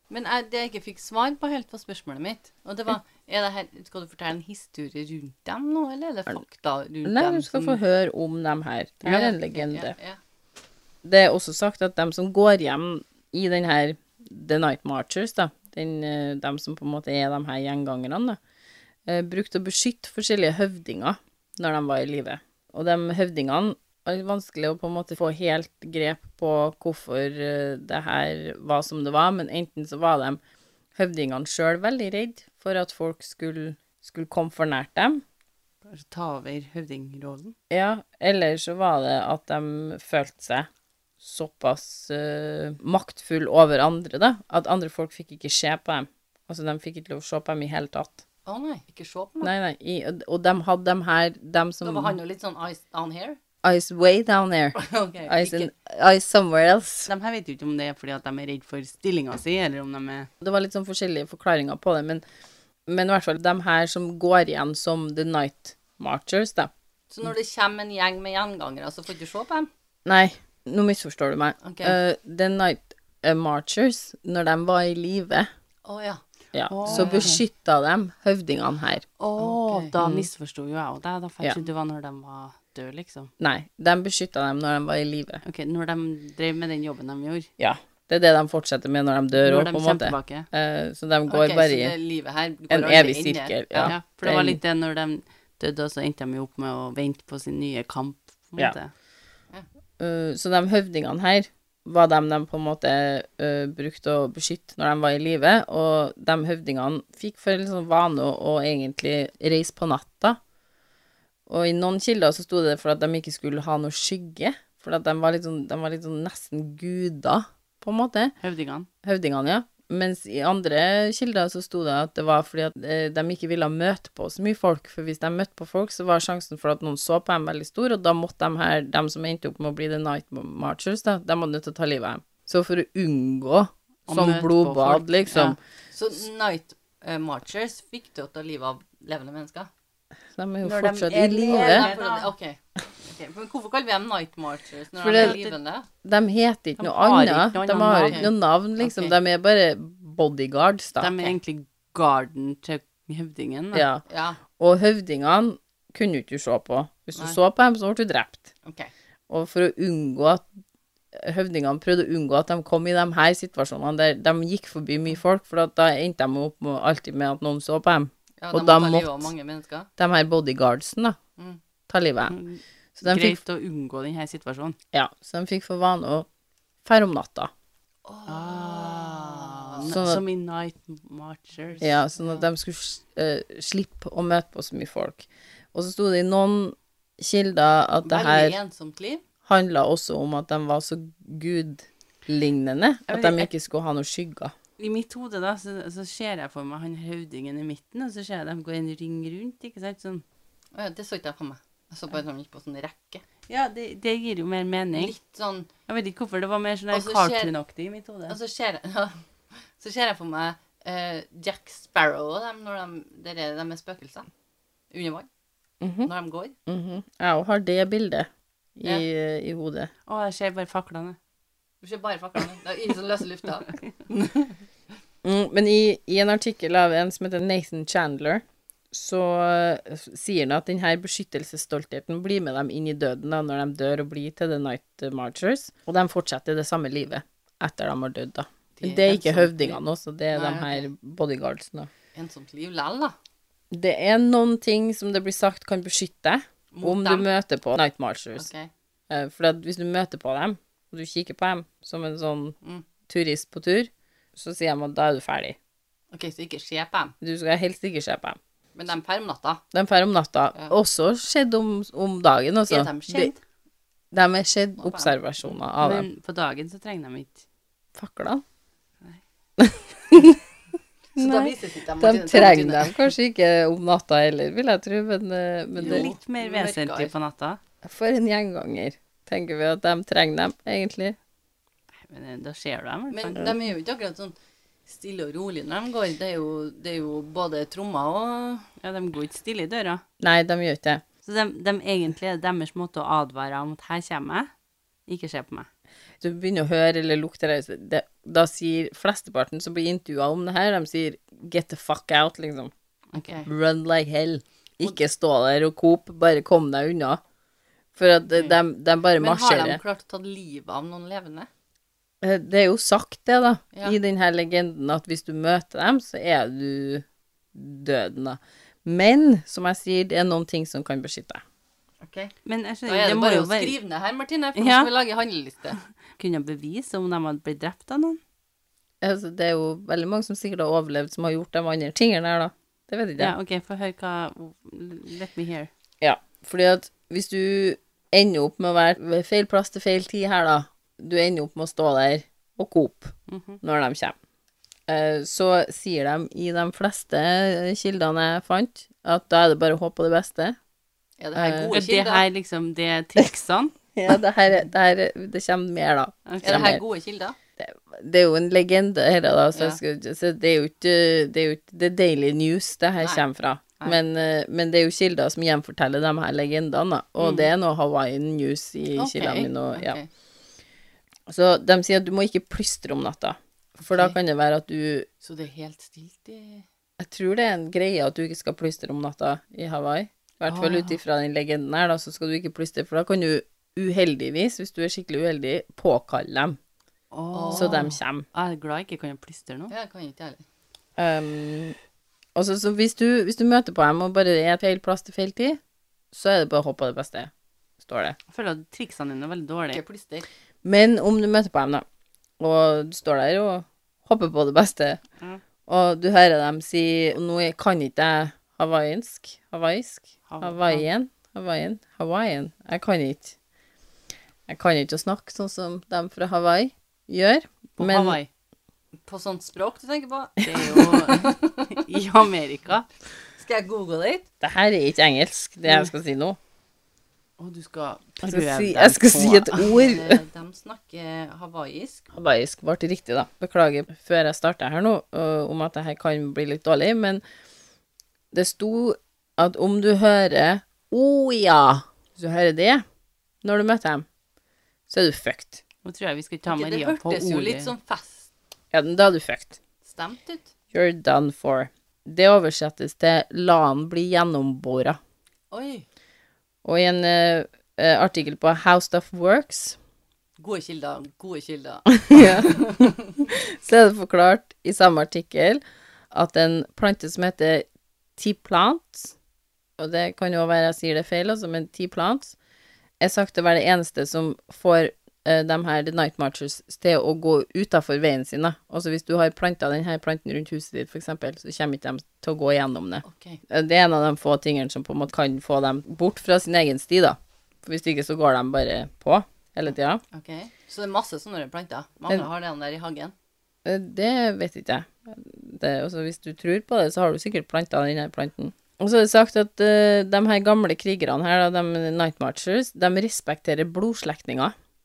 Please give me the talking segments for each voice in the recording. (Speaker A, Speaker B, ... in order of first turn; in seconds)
Speaker A: 0.1-7.8, 9.0-10.2, 48.5-49.5, 51.8-53.4, 54.7-55.7, 67.1-69.7, 71.6-72.0, 75.8-76.2, 76.8-77.4, 79.4-79.9, 91.3-93.9, 135.9-139.7, 141.1-145.9, 148.0-149.2, 154.1-154.4, 158.6-158.9, 168.4-169.9, 178.0-179.9, 182.2-182.5, 188.0-189.2, 200.7-203.2, 204.9-205.7, 206.9-207.5, 208.3-214.3, 214.9-215.3, 216.0-216.6, 221.8-224.6, 238.8-239.8, 240.3-240.9, 242.1-243.2, 246.7-247.3, 248.4-248.7, 256.1-257.1, 258.7-259.6, 262.7-263.4, 264.8-265.1, 271.1-273.1, 275.8-277.1, 283.1-288.7, 303.1-303.5, 308.3-308.6, 309.1-311.5, 322.0-322.3, 322.9-325.8, 351.2-352.2, 356.4-357.4, 359.5-359.8, 363.0-363.2, 367.2-367.5, 368.9-370.1, 373.9-374.1, 375.2-376.6, 387.3-387.9, 389.7-390.4, 399.7-400.2, 419.0-421.8, 423.4-424.2, 429.6-432.1, 446.5-448.3, 449.8-450.5, 455.5-455.9, 460.4-462.9, 483.0-483.4, 490.1-493.1
Speaker B: 7.0-9.9, 11.0-18.4, 19.1-30.4, 30.9-35.2, 37.7-40.7, 41.2-48.2, 49.4-52.2, 53.6-57.1, 60.4-62.2, 62.9-66.7, 70.0-75.5, 76.5-79.0, 80.0-80.3, 83.4-85.4, 87.6-91.9, 92.7-94.6, 100.0-110.4, 111.5-118.3, 119.0-135.6, 140.3-141.9, 145.0-145.4, 146.0-151.2, 153.7-154.0, 154.6-158.5, 159.3-160.4, 161.1-169.3, 170.0-171.2, 171.9-172.3, 173.0-173.4, 174.9-176.3, 176.8-177.5, 179.9-180.2, 181.8-188.6, 189.4-194.5, 215.8-216.1, 216.7-219.9, 225.2-241.9, 243.7-248.5, 249.1-252.6, 253.1-255.6, 257.2-258.4, 259.7-263.3, 264.1-266.1, 267.9-268.4, 269.6-270.4, 271.1-276.1, 277.8-281.2, 290.2-291.0, 296.2-302.7, 303.4-307.2, 307.9-309.8, 312.2-321.4, 329.0-333.3, 336.0-344.1, 344.9-350.6, 351.3-351.8, 353.9-356.8, 357.6-370.0, 371.3-375.1, 377.0-386.6, 387.5-388.2, 391.0-391.8, 392.4-395.6, 396.1-397.3, 397.8-398.2, 400.6-401.8, 402.4-405.0, 405.7-413.4, 414.5-418.2, 420.4-420.9, 424.4-426.4, 428.2-430.2, 432.1-437.2, 438.3-442.8, 443.4-444.1, 444.9-445.6, 448.7-449.6, 450.7-455.0, 456.6-459.8, 461.9-467.6, 468.2-469.1, 469.8-472.4, 473.0-490.0, 493.6-504.5
Speaker C: 35.9-37.5, 57.1-60.3, 76.7-77.4, 79.2-83.3, 85.4-87.5, 89.3-90.5, 93.8-98.9, 118.4-118.9, 134.1-135.6, 140.6-142.3, 145.1-145.5, 146.8-148.3, 151.0-153.9, 172.3-174.8, 178.3-181.9, 193.1-193.5, 194.8-200.2, 203.5-205.1, 205.9-208.4, 220.1-221.2, 265.8-267.4, 275.8-277.6, 282.1-283.5, 288.8-290.0, 291.2-294.5, 295.1-295.7, 322.4-323.7, 324.6-324.9, 326.2-328.2, 333.2-335.7, 343.3-343.6, 351.7-353.7, 356.2-356.7, 380.5-380.9, 387.1-389.7, 398.3-399.8, 410.3-410.9, 417.8-418.3, 420.4-422.9, 427.4-429.7, 445.8-447.7